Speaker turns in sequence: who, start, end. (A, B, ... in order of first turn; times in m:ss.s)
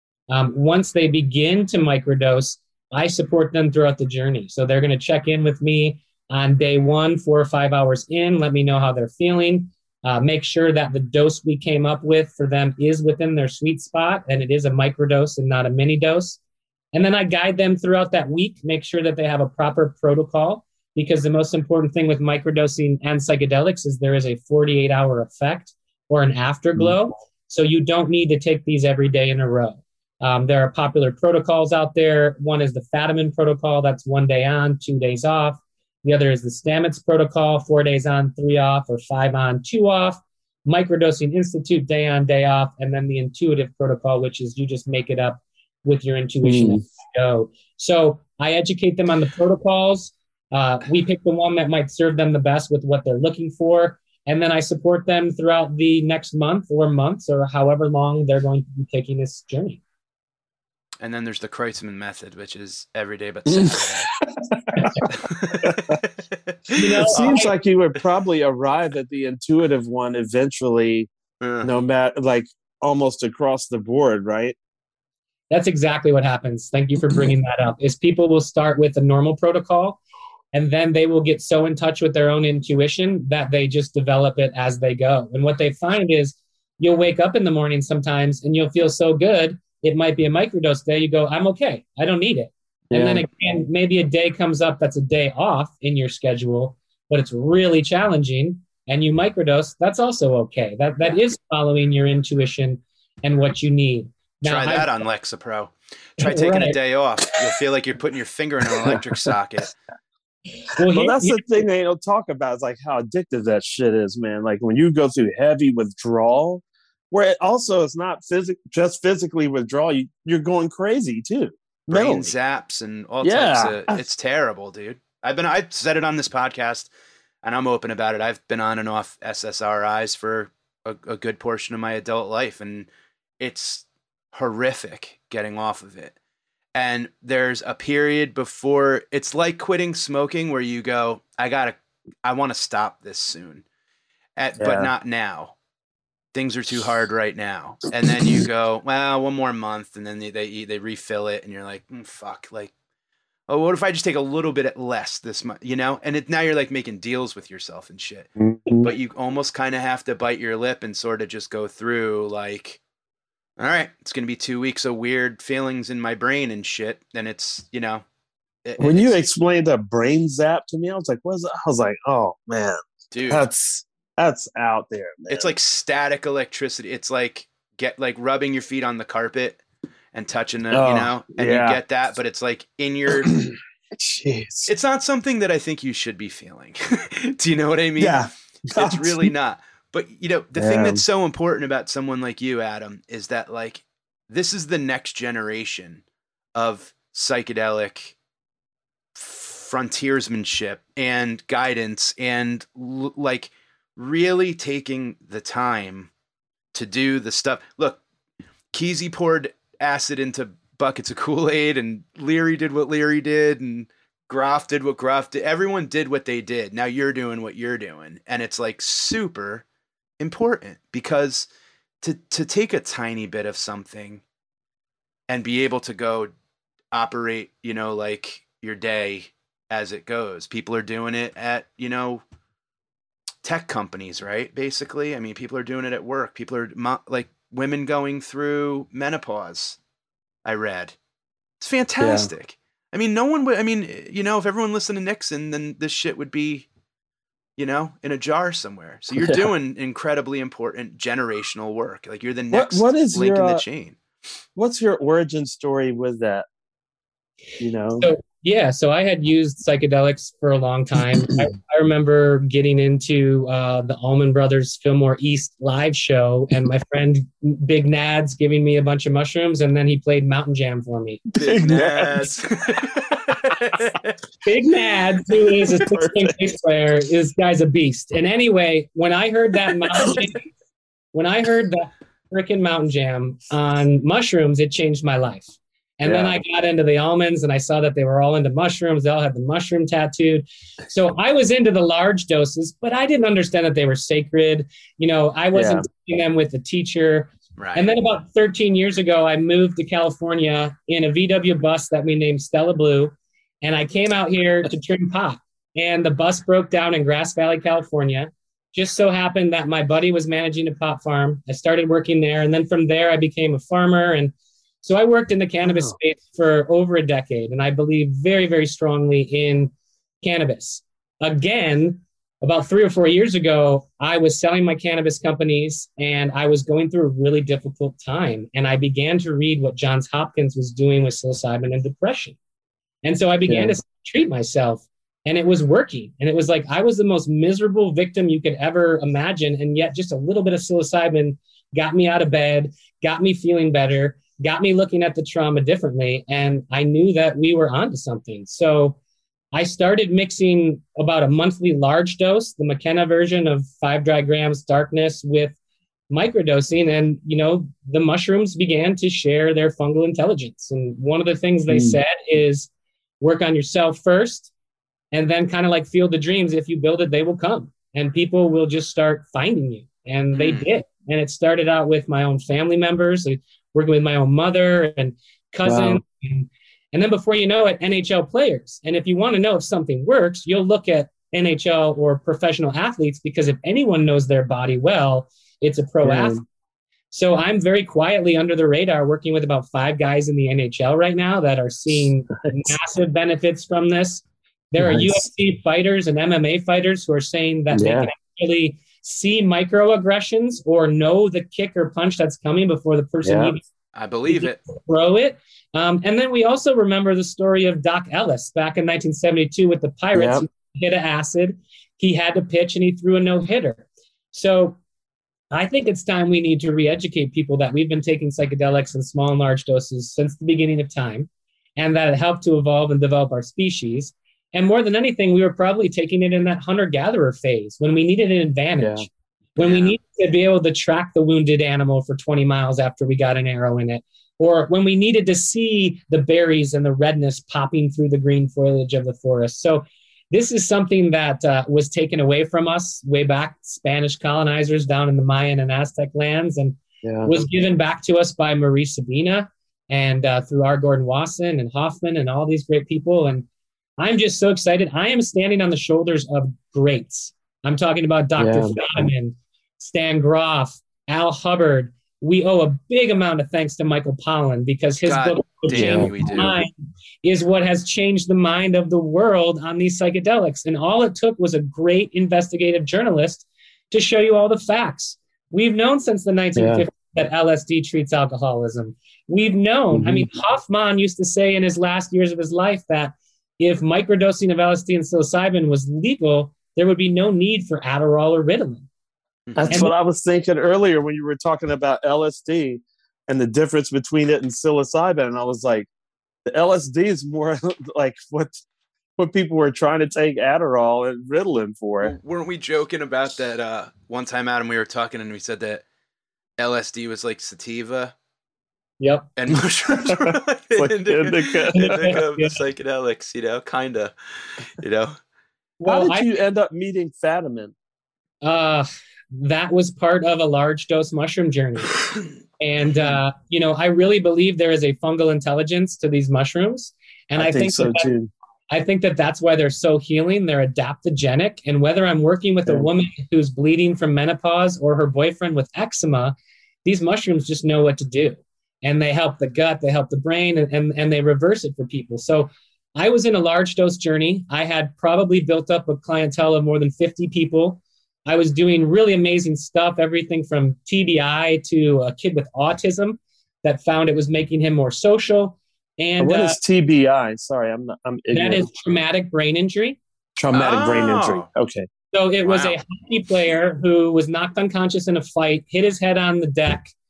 0:00.3-0:16.4 A
0:16.9-0:59.8 A
0:46.4-0:46.8 B
1:01.0-1:04.1 C
1:03.6-1:03.9 B
1:04.4-1:05.1 B
1:05.0-1:06.1 C
1:05.6-1:06.0 B
1:06.7-1:07.2 C
1:06.8-1:07.5 A
1:07.1-1:11.1 B
1:11.4-1:11.7 C
1:11.6-1:14.6 B
1:15.5-1:20.0 A
1:20.5-1:44.9 A
1:32.9-1:33.3 B
1:44.4-1:49.8 C
1:46.2-1:46.8 A
1:50.7-1:51.6 A
1:50.8-2:02.3 B
2:01.9-2:06.9 C
2:03.2-2:04.0 B
2:07.4-2:12.9 C
2:13.4-2:16.2 C
2:16.8-2:23.6 C
2:24.4-2:25.5 C
2:24.6-2:24.9 B
2:26.3-2:32.7 C
2:28.1-2:28.4 B
2:33.5-2:42.8 C
2:38.4-2:38.9 B
2:43.6-2:48.0 C
2:48.6-2:49.2 C
2:48.8-2:55.5 B
2:53.1-2:53.5 C
2:55.3-2:59.6 C
3:00.1-3:03.5 C
3:00.7-3:01.8 B
3:03.1-3:04.7 B
3:04.7-3:08.2 C
3:08.0-3:09.3 B
3:08.7-3:16.0 C
3:10.6-3:11.0 B
3:16.6-3:18.1 C
3:19.2-3:26.1 C
3:26.7-3:28.0 C
3:28.7-3:39.6 C
3:40.2-3:41.5 C
3:42.0-3:44.2 C
3:45.3-3:46.3 C
3:46.9-3:52.2 C
3:53.4-3:59.8 C
4:00.4-4:01.0 C
4:01.6-4:06.7 C
4:02.0-4:02.3 B
4:07.6-4:14.0 C
4:09.2-4:09.5 B
4:12.5-4:13.6 B
4:14.6-4:16.5 B
4:17.6-4:18.1 B
4:18.0-4:31.2 A
4:31.4-4:32.4 B
4:31.4-4:34.1 C
4:34.4-4:40.5 A
4:35.7-4:36.3 B
4:41.1-5:32.4 A
4:46.0-4:46.4 B
4:55.5-4:55.9 B
4:57.6-4:57.9 C
5:15.6-5:15.9 B
5:33.0-5:49.0 A
5:33.5-5:33.8 B
5:49.5-5:55.6 A
5:56.1-6:02.7 A
6:01.7-6:02.0 B
6:03.2-6:04.5 A
6:05.1-6:26.4 A
6:10.3-6:10.7 C
6:15.6-6:16.0 B
6:26.0-6:26.4 B
6:27.1-6:43.6 A
6:34.8-6:35.2 B
6:37.7-6:38.1 B
6:43.2-6:43.6 B
6:44.0-6:44.6 C
6:44.3-6:54.8 A
6:50.2-6:50.4 B
6:55.5-7:33.5 A
7:08.8-7:09.1 B
7:09.6-7:10.0 C
7:27.0-7:27.4 B
7:34.0-7:46.7 A
7:38.4-7:38.8 B
7:45.1-7:46.6 C
7:45.8-7:46.5 B
7:47.2-8:08.9 A
7:56.6-7:56.9 B
7:59.9-8:00.3 B
8:09.5-8:09.8 C
8:09.6-8:15.9 B
8:16.5-8:18.6 B
8:19.2-8:22.2 B
8:22.0-8:25.8 C
8:26.6-8:28.1 C
8:29.0-8:29.3 A
8:29.4-8:35.2 C
8:29.5-8:32.2 B
8:31.8-8:32.5 A
8:35.8-8:36.3 A
8:35.9-8:37.8 B
8:38.4-8:42.0 A
8:42.6-8:48.1 A
8:47.4-8:48.3 B
8:48.7-9:16.6 A
9:16.2-9:18.7 B
9:18.3-9:20.0 A
9:20.4-9:21.9 B
9:20.5-9:21.5 C
9:22.1-9:26.9 A
9:22.4-9:22.8 C